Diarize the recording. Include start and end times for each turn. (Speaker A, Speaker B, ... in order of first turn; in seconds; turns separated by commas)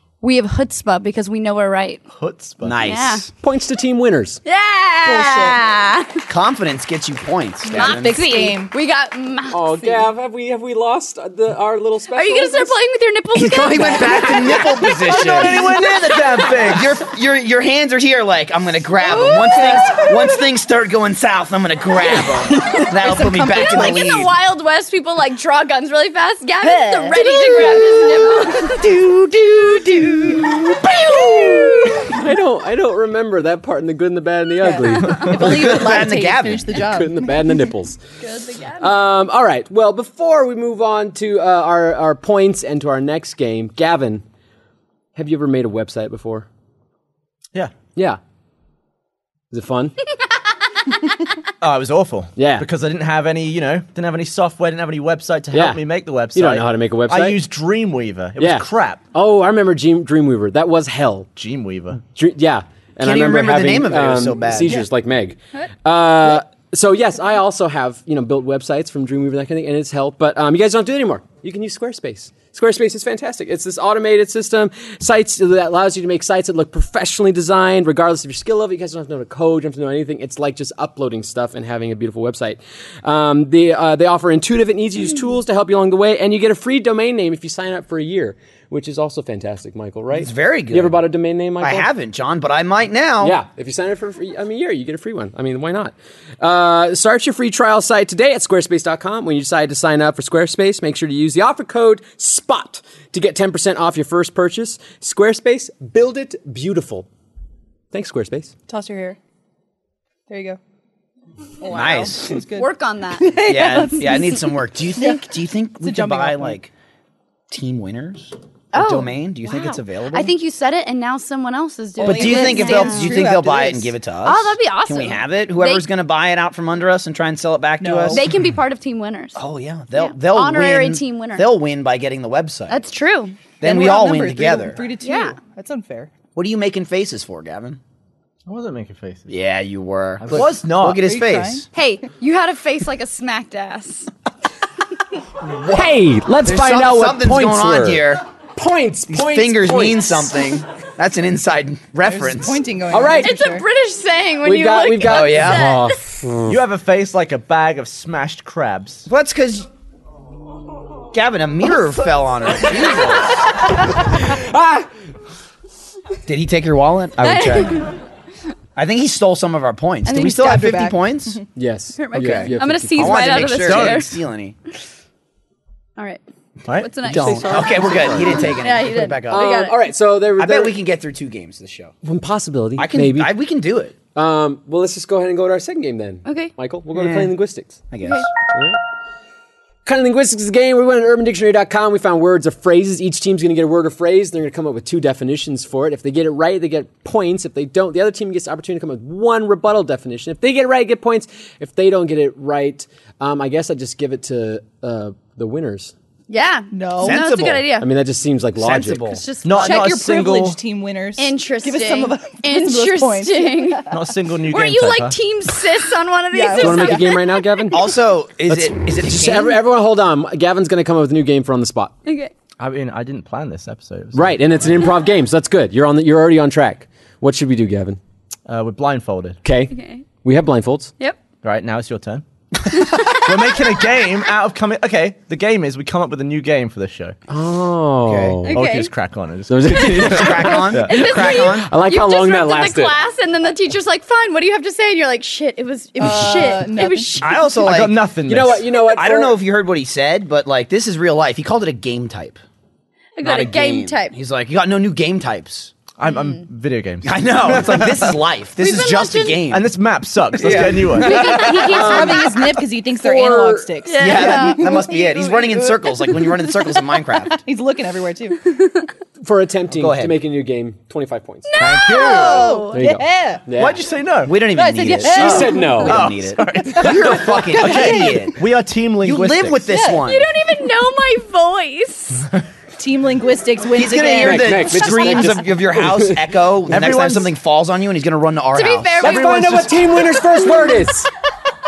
Speaker A: 0.2-2.0, Speaker B: 2.2-2.8, Speaker C: 2.6-3.3, Speaker A: 2.8-3.3, Speaker D: 3.4-4.4, Speaker A: 4.5-6.2, Speaker E: 5.0-5.6, Speaker C: 6.3-8.2, Speaker A: 7.7-10.1, Speaker E: 7.7-8.7, Speaker D: 9.5-12.7, Speaker A: 12.1-16.6, Speaker C: 13.3-15.7, Speaker B: 15.1-17.0, Speaker C: 16.6-24.3, Speaker A: 19.0-20.1, Speaker E: 22.7-24.1, Speaker A: 23.5-28.9, Speaker E: 26.6-28.0, Speaker C: 29.8-30.2, Speaker A: 30.4-32.0, Speaker C: 30.8-32.1, Speaker D: 32.0-35.4, Speaker E: 34.6-37.3, Speaker A: 34.9-35.3, Speaker C: 35.3-36.8, Speaker D: 36.7-38.0, Speaker A: 38.2-38.9, Speaker D: 38.8-44.2, Speaker D: 45.1-46.5, Speaker D: 47.9-48.2, Speaker D: 49.5-50.0, Speaker B: 51.6-59.0, Speaker D: 52.4-52.7, Speaker D: 55.5-57.4, Speaker D: 58.4-61.3, Speaker B: 61.4-62.0, Speaker D: 62.0-91.9, Speaker C: 63.0-64.8, Speaker C: 90.1-91.0, Speaker C: 91.6-93.4, Speaker D: 93.2-107.1, Speaker D: 107.9-108.5, Speaker E: 108.7-109.2, Speaker E: 110.3-110.6, Speaker E: 111.6-115.3, Speaker C: 111.7-112.4, Speaker A: 112.5-114.1, Speaker C: 113.5-116.7, Speaker E: 115.8-116.6, Speaker C: 117.5-120.3, Speaker A: 118.7-123.2, Speaker E: 122.0-123.9, Speaker C: 122.0-128.2, Speaker A: 124.2-125.9, Speaker E: 127.8-128.2, Speaker A: 128.1-129.4, Speaker C: 129.3-132.8, Speaker A: 129.9-131.5, Speaker A: 132.7-133.3, Speaker C: 133.6-134.9, Speaker E: 133.6-136.1, Speaker A: 135.0-135.4, Speaker C: 136.3-137.8, Speaker B: 138.5-139.3, Speaker C: 139.3-141.7, Speaker B: 140.2-141.0, Speaker E: 141.0-141.7, Speaker A: 141.7-144.1, Speaker C: 145.5-145.8, Speaker D: 145.6-150.3, Speaker C: 146.4-148.2, Speaker C: 149.1-152.6, Speaker E: 152.0-153.6, Speaker D: 152.9-153.3, Speaker A: 153.2-156.0, Speaker D: 154.4-156.6, Speaker C: 155.0-155.7, Speaker B: 156.5-159.1, Speaker C: 159.1-159.7, Speaker C: 161.1-163.4, Speaker D: 163.9-164.9, Speaker C: 166.2-167.8, Speaker A: 167.2-167.9, Speaker C: 168.8-171.4, Speaker E: 170.0-171.4, Speaker D: 171.5-173.6, Speaker A: 172.0-174.2, Speaker C: 172.1-174.6, Speaker B: 173.6-174.2, Speaker A: 176.0-176.2, Speaker B: 176.6-177.1, Speaker A: 176.7-179.8, Speaker C: 177.1-179.4, Speaker D: 177.1-178.6, Speaker D: 179.3-180.8, Speaker C: 180.4-181.9, Speaker D: 182.0-183.3, Speaker C: 182.8-183.9, Speaker D: 184.1-187.8, Speaker A: 186.2-186.5, Speaker C: 186.9-187.3, Speaker C: 187.9-188.3, Speaker D: 188.5-188.8, Speaker D: 189.8-205.9, Speaker A: 206.3-207.9, Speaker E: 206.7-207.2, Speaker C: 207.0-207.7, Speaker D: 207.8-209.2, Speaker C: 208.6-209.2, Speaker A: 209.0-209.9, Speaker B: 209.4-210.6, Speaker E: 209.6-214.0, Speaker A: 211.2-213.8, Speaker B: 213.9-215.2, Speaker A: 214.4-217.6, Speaker E: 216.3-217.2, Speaker D: 216.5-217.9, Speaker C: 217.7-219.6, Speaker D: 218.5-221.9, Speaker A: 222.1-222.3, Speaker B: 222.6-224.4, Speaker D: 224.1-228.0, Speaker B: 228.5-229.4, Speaker D: 229.4-230.9, Speaker A: 229.7-230.0, Speaker B: 231.4-232.2, Speaker A: 232.7-233.7, Speaker B: 232.9-237.2, Speaker D: 237.3-238.6, Speaker C: 238.1-238.4, Speaker A: 238.4-238.9, Speaker B: 238.5-240.9, Speaker D: 239.5-243.0, Speaker C: 239.8-241.7, Speaker A: 240.0-247.6, Speaker E: 246.0-247.2, Speaker C: 247.2-252.4, Speaker B: 247.6-248.6, Speaker D: 248.3-249.4, Speaker A: 253.2-254.1, Speaker C: 253.2-255.7, Speaker B: 256.0-258.2, Speaker A: 256.0-256.4, Speaker C: 257.0-259.7, Speaker A: 258.6-259.4, Speaker B: 259.5-261.3, Speaker C: 260.4-262.1, Speaker E: 260.9-266.2, Speaker A: 261.0-262.1, Speaker D: 261.7-262.3, Speaker D: 262.9-263.7, Speaker A: 263.8-265.5, Speaker C: 264.0-267.4, Speaker E: 267.4-268.5, Speaker D: 269.2-271.5, Speaker C: 269.8-270.1, Speaker A: 271.5-272.8, Speaker B: 271.6-272.6, Speaker E: 271.9-273.4, Speaker D: 272.7-273.8, Speaker B: 273.5-274.4, Speaker C: 274.2-278.4, Speaker E: 274.5-275.9, Speaker D: 274.9-276.0, Speaker B: 275.2-279.8, Speaker E: 276.6-278.2, Speaker C: 279.0-280.3, Speaker E: 279.7-280.0, Speaker A: 280.0-282.3, Speaker E: 282.8-285.2, Speaker C: 283.7-289.1, Speaker D: 284.2-286.3, Speaker B: 286.7-287.3, Speaker A: 288.5-289.3, Speaker B: 289.0-289.8, Speaker D: 289.0-291.1